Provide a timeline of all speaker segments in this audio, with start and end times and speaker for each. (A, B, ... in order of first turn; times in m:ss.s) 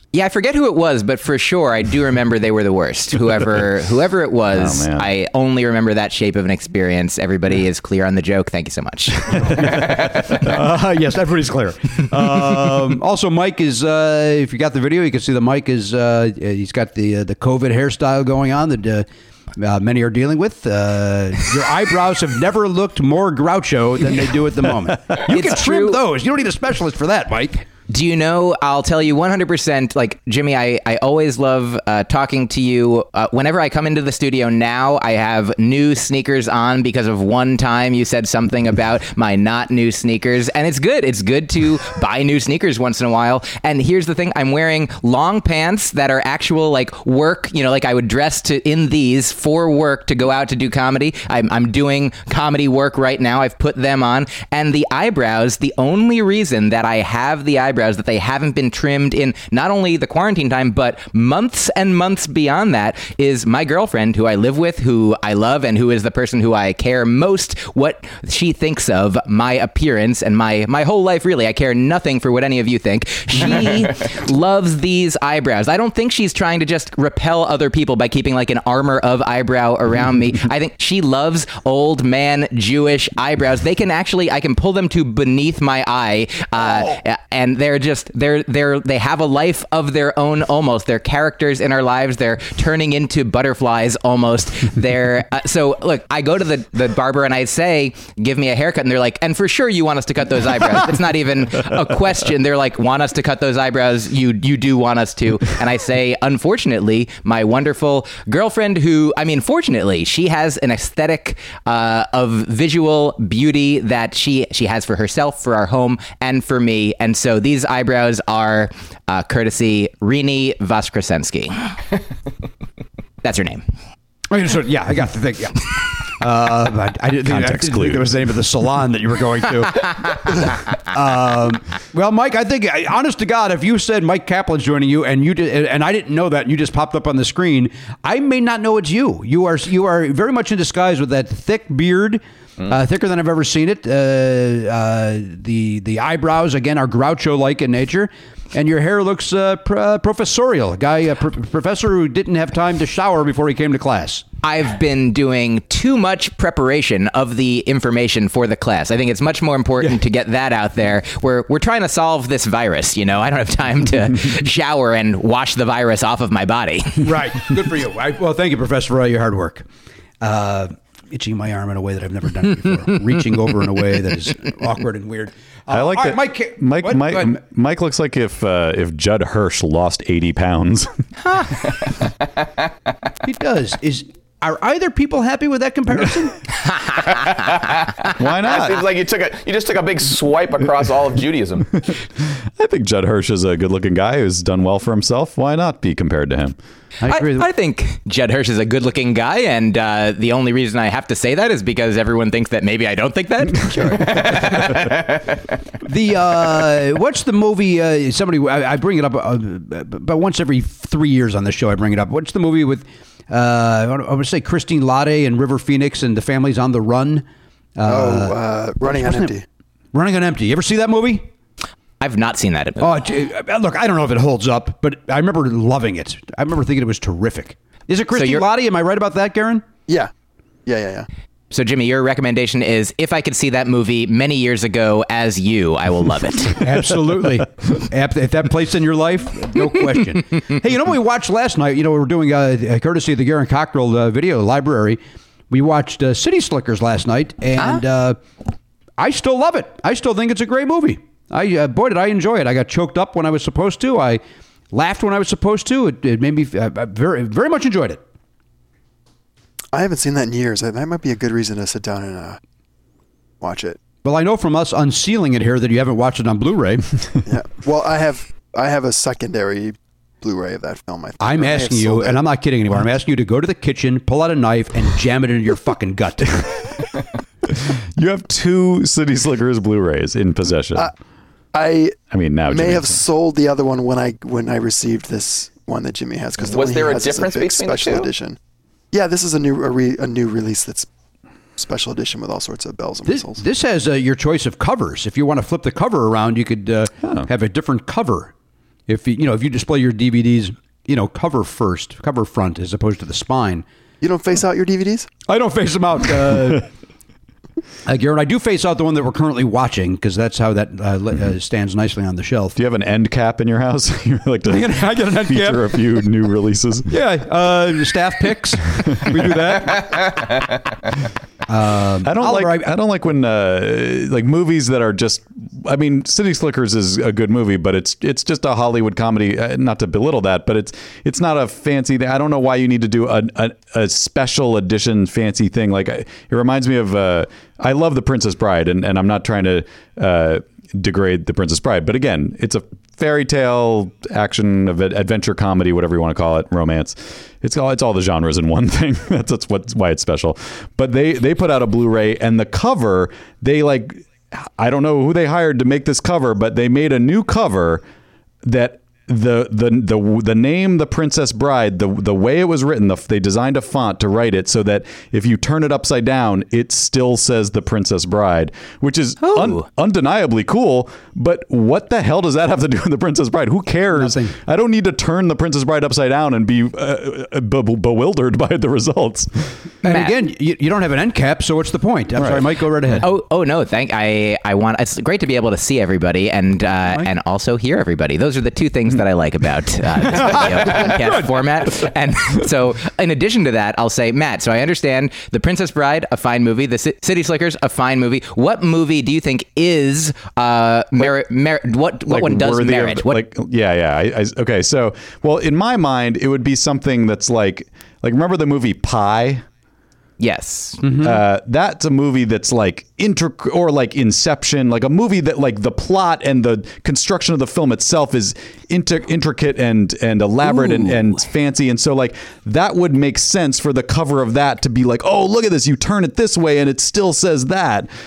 0:00.1-0:10.4 A
0:04.5-0:05.1 B
0:09.3-0:10.2 B
0:09.5-0:19.0 C
0:19.6-0:27.6 C
0:25.3-0:26.0 A
0:27.9-2:01.7 A
2:03.2-2:03.6 A
2:04.3-2:34.2 C
2:07.2-2:08.1 B
2:34.4-2:47.2 A
2:47.0-2:49.6 C
2:50.2-2:57.4 C
2:55.7-3:01.0 B
3:03.2-3:06.4 C
3:07.0-3:11.7 D
3:08.1-3:08.9 B
3:11.8-3:16.6 B
3:17.0-3:17.5 C
3:17.1-3:24.6 A
3:23.7-3:24.6 C
3:24.1-3:25.0 D
3:25.8-3:37.2 C
3:37.8-3:39.3 C
3:37.9-3:39.4 E
3:39.9-3:41.3 C
3:42.0-3:43.0 A
3:42.8-3:49.6 C
3:48.1-3:48.4 A
3:50.6-3:51.1 E
3:51.5-3:56.6 A
3:56.6-4:05.0 C
4:05.5-4:08.2 C
4:07.6-4:07.8 A
4:09.0-4:14.2 C
4:14.7-4:18.0 C
4:19.7-4:22.4 E
4:23.4-4:23.8 E
4:24.0-4:26.9 C
4:27.2-4:32.2 E
4:31.2-4:36.5 C
4:37.5-4:40.9 B
4:41.5-4:48.4 E
4:42.1-4:43.0 B
4:46.5-4:48.1 D
4:48.9-4:50.9 E
4:51.6-4:53.4 E
4:53.1-4:58.3 C
4:57.0-4:57.3 B
4:58.9-5:03.6 C
5:04.0-5:05.1 E
5:05.3-5:06.7 C
5:07.8-5:12.6 C
5:12.6-5:17.0 B
5:14.5-5:15.8 C
5:16.9-5:20.0 C
5:18.8-5:19.2 B
5:21.5-5:22.7 C
5:22.0-5:57.8 B
5:58.4-6:19.7 B
6:09.2-6:09.7 A
6:14.0-6:14.3 C
6:19.8-6:23.1 C
6:19.8-6:20.1 A
6:22.2-6:22.5 B
6:23.0-6:43.2 A
6:30.1-6:31.3 C
6:42.1-6:49.4 B
6:50.2-6:50.9 A
6:50.8-6:51.2 C
6:51.0-7:07.9 B
7:00.4-7:01.2 A